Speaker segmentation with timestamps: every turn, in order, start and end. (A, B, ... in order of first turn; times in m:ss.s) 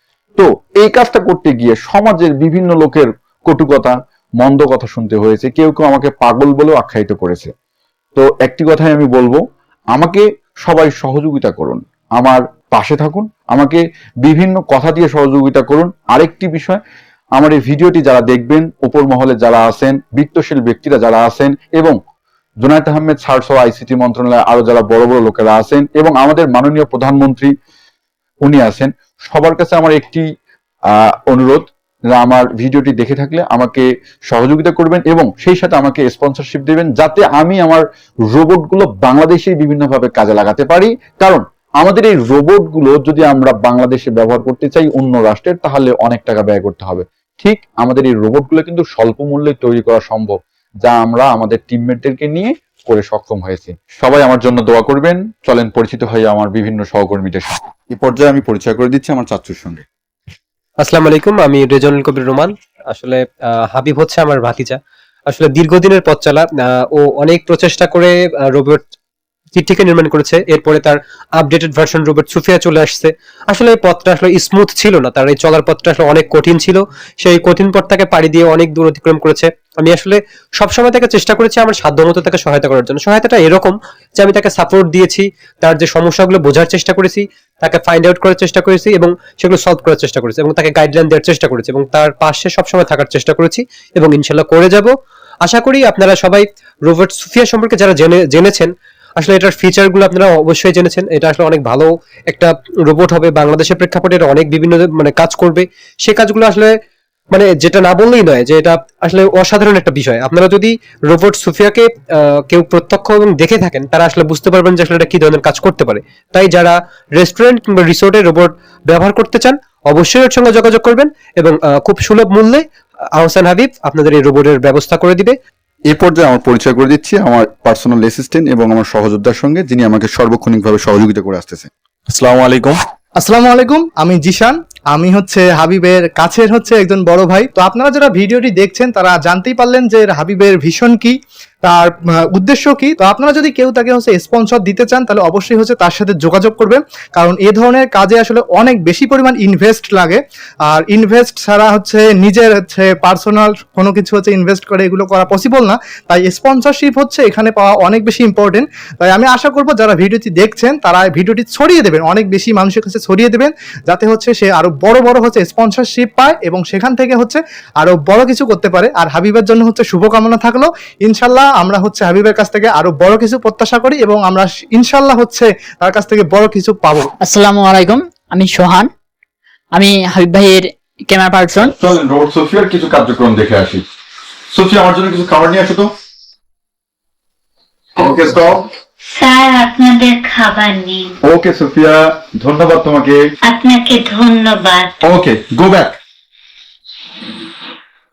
0:00.4-0:07.5 A
0:08.2-0:09.4 A
0:09.9-0:16.8 A
0:17.4-0:22.0 A
0:22.6-0:27.5 A
0:28.4-0:30.2 A
0:31.3-0:59.8 A
1:00.8-1:08.8 B
1:09.6-1:46.7 B
1:47.3-2:05.4 B
2:05.9-2:12.8 A
2:13.2-2:57.1 C
2:57.2-2:58.9 D
2:59.7-3:01.7 D
3:01.7-3:03.8 A
3:04.5-3:05.9 A
3:08.0-3:08.6 A
3:09.1-3:11.0 E
3:11.3-3:13.2 A
3:13.5-3:15.0 E
3:15.0-3:16.0 A